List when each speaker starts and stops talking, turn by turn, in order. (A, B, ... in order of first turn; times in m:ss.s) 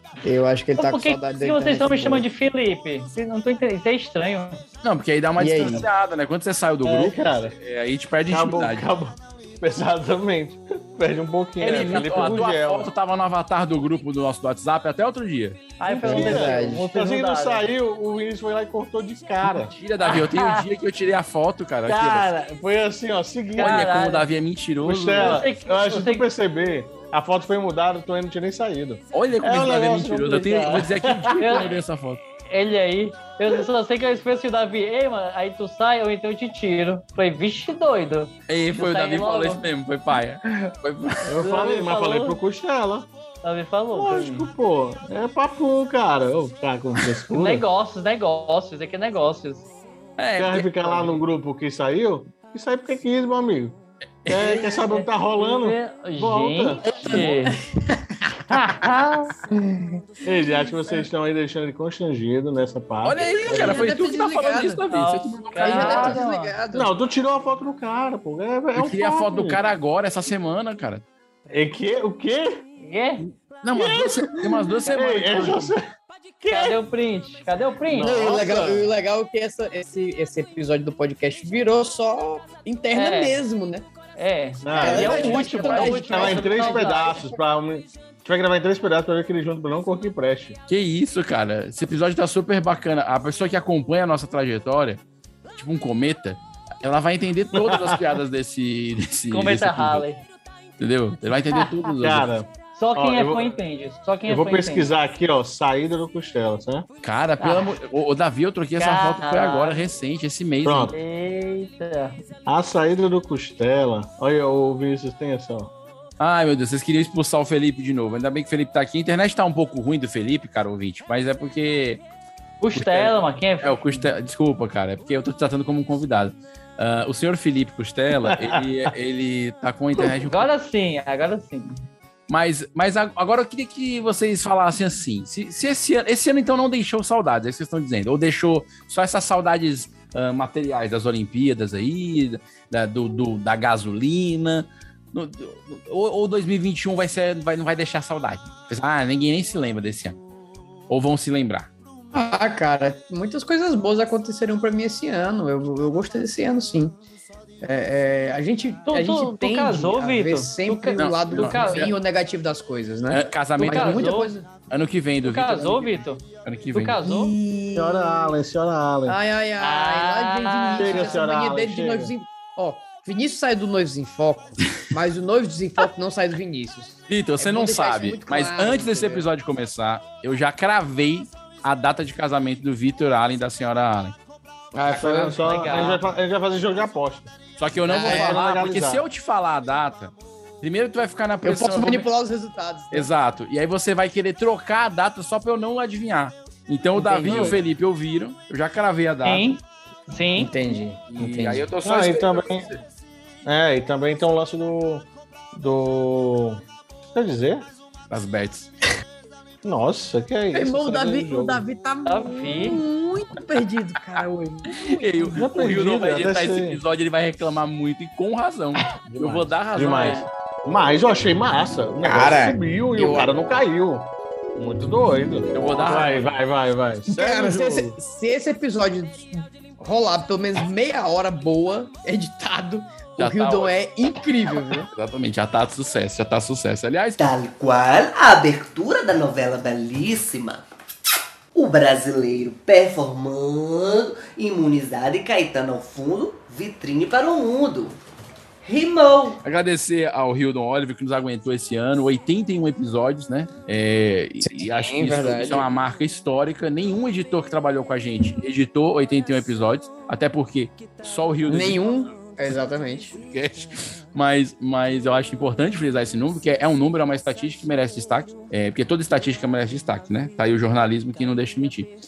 0:00.2-0:02.3 A
0:00.8-0:04.6 B
0:04.8-0:08.9 C
0:05.4-0:05.9 A
0:06.8-0:07.5 D
0:08.3-0:12.9 D
0:11.6-0:12.0 B
0:11.6-0:15.7 C
0:15.8-0:17.6 B
0:15.8-0:19.7 D
0:16.0-0:16.9 A
0:19.5-0:22.3 C
0:20.0-0:20.6 B
0:21.8-0:23.9 D
0:23.6-0:24.2 B
0:23.6-0:25.4 C
0:24.8-0:31.7 D
0:25.2-0:26.3 B
0:29.1-0:32.2 C
0:31.4-0:31.7 B
0:32.5-0:39.6 B
0:38.5-0:41.4 C
0:41.2-0:43.1 D
0:41.4-0:42.4 B
0:43.4-0:44.5 B
0:43.9-0:47.6 D
0:47.3-0:49.7 B
0:50.2-0:50.7 C
0:50.4-0:57.2 D
0:54.2-0:54.7 C
0:54.7-0:57.6 B
0:56.8-0:57.4 C
0:57.5-0:58.2 A
0:58.5-0:59.4 B
0:59.5-1:00.0 A
1:00.2-1:03.9 D
1:03.0-1:06.2 C
1:03.4-1:04.8 A
1:04.9-1:06.5 B
1:05.6-1:06.9 A
1:06.7-1:09.6 D
1:08.7-1:11.0 C
1:11.5-1:12.6 D
1:12.8-1:13.2 B
1:13.6-1:15.7 C
1:13.7-1:15.8 D
1:16.4-1:16.8 D
1:16.4-1:18.1 B
1:17.9-1:18.9 D
1:18.0-1:23.9 A
1:22.9-1:23.4 B
1:24.2-1:27.2 B
1:24.6-1:30.6 D
1:24.7-1:27.2 A
1:24.9-1:25.9 C
1:30.7-1:35.0 C
1:35.6-1:40.0 C
1:37.6-1:38.0 D
1:39.3-1:40.2 B
1:40.8-1:42.3 C
1:42.0-1:43.5 D
1:42.7-1:44.9 B
1:44.3-1:46.9 D
1:47.0-1:50.9 C
1:47.4-1:47.7 B
1:48.8-1:49.9 B
1:50.6-1:50.9 D
1:50.9-1:52.2 B
1:52.4-1:55.7 D
1:56.2-2:02.0 C
2:02.6-2:04.0 B
2:02.7-2:10.5 C
2:08.3-2:08.6 D
2:10.0-2:11.8 B
2:12.3-2:30.2 C
2:30.9-2:31.7 C
2:32.1-2:37.0 A
2:37.6-2:44.5 A
2:38.9-2:41.9 B
2:41.0-2:41.9 C
2:43.1-2:44.2 C
2:43.7-2:44.3 B
2:44.7-2:47.0 C
2:45.2-2:47.3 B
2:47.0-2:48.3 A
2:47.7-2:49.2 D
2:49.0-2:59.3 A
2:49.6-2:51.2 B
2:50.8-2:52.1 D
2:57.1-3:04.1 C
3:04.7-3:05.9 A
3:04.9-3:07.3 D
3:05.4-3:06.0 B
3:07.6-3:12.1 C
3:07.9-3:08.4 A
3:07.9-3:09.0 D
3:11.4-3:13.1 A
3:12.9-3:19.5 C
3:17.0-3:17.6 A
3:17.2-3:17.6 D
3:19.2-3:20.5 B
3:20.4-3:21.7 A
3:21.1-3:22.8 C
3:21.8-3:22.7 D
3:23.4-3:27.7 D
3:28.1-3:28.7 C
3:29.6-3:31.6 D
3:30.5-3:35.3 A
3:32.0-3:32.8 B
3:34.7-3:40.2 C
3:35.3-3:36.8 D
3:39.0-3:47.9 D
3:42.0-3:43.3 A
3:45.5-3:46.2 C
3:47.1-3:54.9 A
3:53.2-3:53.8 C
3:54.9-3:57.2 C
3:57.2-4:00.6 E
4:01.5-4:08.0 E
4:08.6-4:09.4 E
4:09.4-4:21.8 C
4:14.4-4:15.7 A
4:21.4-4:23.2 A
4:23.2-4:31.9 C